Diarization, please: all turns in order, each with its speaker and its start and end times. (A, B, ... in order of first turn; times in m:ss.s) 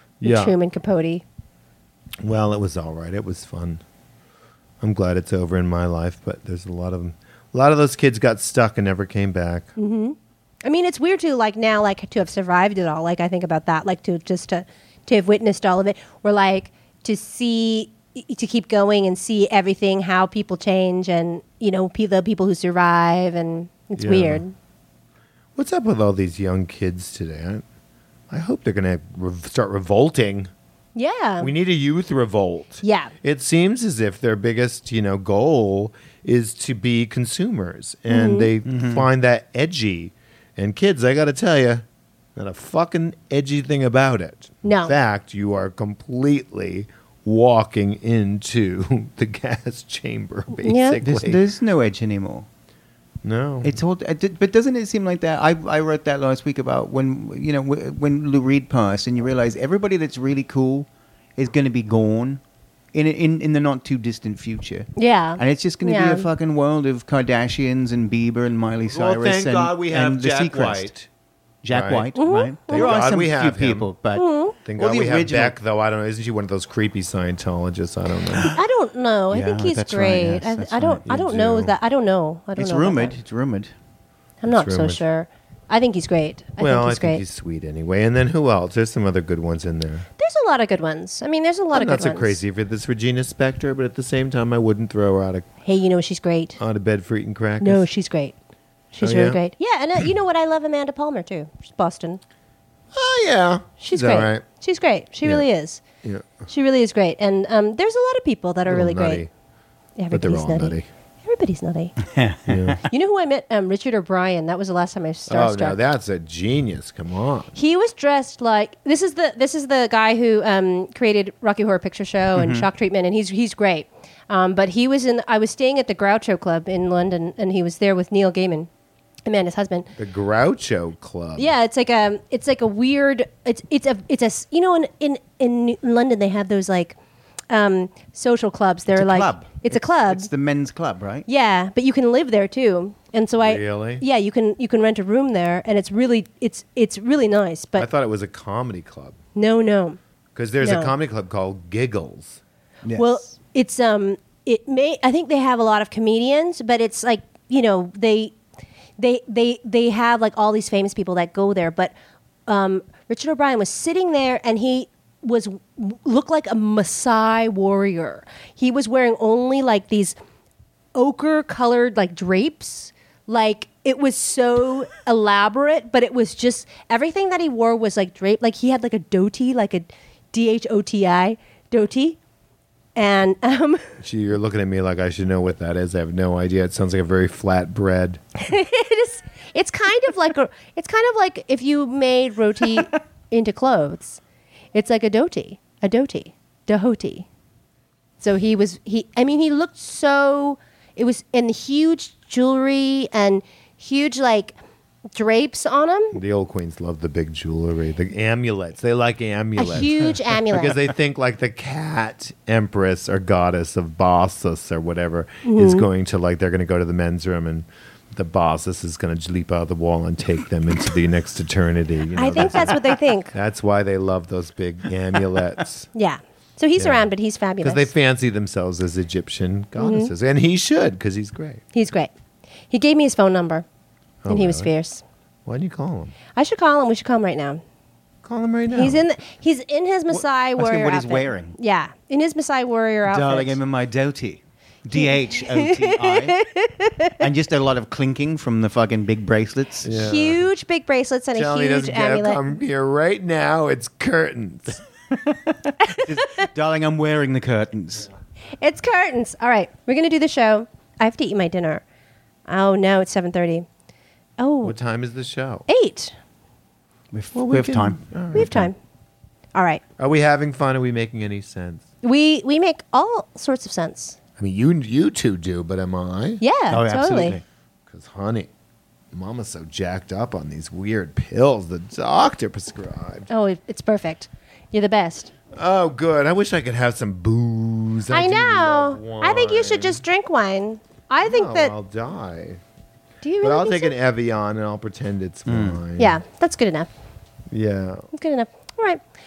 0:00.2-0:00.6 A
0:00.2-0:01.2 B
0:02.2-0:03.8 A
0:04.8-0:09.7 A
0:09.8-0:24.5 B
0:24.0-0:24.4 A
0:25.6-0:27.6 A
0:28.3-0:30.5 A
0:30.9-0:31.5 B
0:31.4-0:41.8 A
0:32.8-0:33.1 B
0:38.1-0:38.5 B
0:38.6-0:39.1 C
0:42.4-0:51.4 A
0:44.6-0:44.9 B
0:50.6-0:51.0 B
0:51.0-0:52.5 C
0:53.2-0:53.8 A
0:53.6-1:02.4 C
1:02.9-1:10.9 C
1:05.0-1:06.3 B
1:08.9-1:11.1 A
1:11.6-1:15.5 C
1:11.7-1:12.1 A
1:12.1-1:13.0 B
1:12.7-1:13.9 A
1:14.1-1:14.6 B
1:14.6-1:18.5 A
1:18.3-1:18.6 C
1:18.4-1:23.1 B
1:19.3-1:21.0 C
1:21.1-1:21.7 A
1:22.6-1:23.7 C
1:24.4-1:27.2 B
1:24.5-1:25.0 A
1:26.6-1:30.1 A
1:30.2-1:32.4 B
1:31.7-1:35.5 A
1:35.6-1:36.6 B
1:36.6-1:37.9 A
1:37.6-1:38.3 B
1:38.9-1:42.2 B
1:39.0-1:39.4 A
1:42.9-1:44.4 A
1:43.8-1:45.8 B
1:46.0-1:46.4 A
1:46.5-1:49.2 B
1:48.6-1:49.3 A
1:50.0-1:52.0 B
1:50.1-1:50.8 A
1:52.0-1:52.8 C
1:52.5-1:52.8 A
1:52.8-1:55.8 B
1:55.3-1:57.5 A
1:57.5-2:08.7 B
2:02.4-2:02.6 C
2:09.2-2:09.9 B
2:10.0-2:11.5 A
2:11.4-2:17.0 B
2:17.5-2:20.3 B
2:18.9-2:21.3 C
2:21.3-2:27.9 B
2:23.4-2:24.0 A
2:27.8-2:29.2 A
2:29.4-2:30.0 B
2:30.3-2:32.4 A
2:30.6-2:30.9 B
2:32.8-2:33.1 C
2:33.0-2:38.4 B
2:39.0-2:41.9 B
2:42.5-2:50.2 B
2:50.9-3:02.2 B
3:03.0-3:03.9 B
3:04.0-3:08.2 A
3:08.4-3:14.2 B
3:14.7-3:17.3 B
3:18.2-3:24.5 B
3:25.1-3:26.2 B
3:26.1-3:42.8 A
3:29.6-3:30.8 B
3:35.4-3:35.8 B
3:42.2-3:43.3 B
3:43.3-3:45.9 A
3:45.9-3:47.9 B
3:46.8-3:47.1 A
3:47.6-3:51.6 A
3:49.8-3:50.1 B
3:51.7-3:52.1 B
3:52.7-3:53.6 B
3:54.2-3:54.7 A
3:54.3-3:55.0 B
3:55.4-3:56.2 A
3:56.3-3:57.6 B
3:58.2-3:59.0 A
3:58.7-4:03.6 B
4:00.1-4:01.6 C
4:03.0-4:06.4 C
4:04.9-4:07.2 B
4:07.2-4:09.9 C
4:09.8-4:10.4 A
4:09.9-4:12.4 B
4:11.3-4:14.8 A
4:15.2-4:18.1 C
4:15.9-4:16.4 B
4:18.6-4:21.8 B
4:22.5-4:23.6 B
4:24.4-4:24.8 B
4:24.6-4:25.7 A
4:25.7-4:26.1 B
4:27.1-4:28.0 C
4:27.3-4:28.7 A
4:28.3-4:28.8 B
4:29.5-4:29.8 B
4:30.0-4:31.8 A
4:32.0-4:34.2 B
4:34.4-4:36.4 A
4:36.4-4:37.4 B
4:36.7-4:37.4 C
4:37.9-4:38.5 A
4:39.1-4:43.3 A
4:43.3-4:45.3 B
4:45.5-4:50.0 A
4:48.1-4:51.7 B
4:51.2-4:52.6 A
4:53.2-4:53.9 B
4:53.4-4:56.2 A
4:55.5-4:55.8 C
4:56.0-4:56.9 B
4:57.5-4:58.1 A
4:58.1-4:59.0 B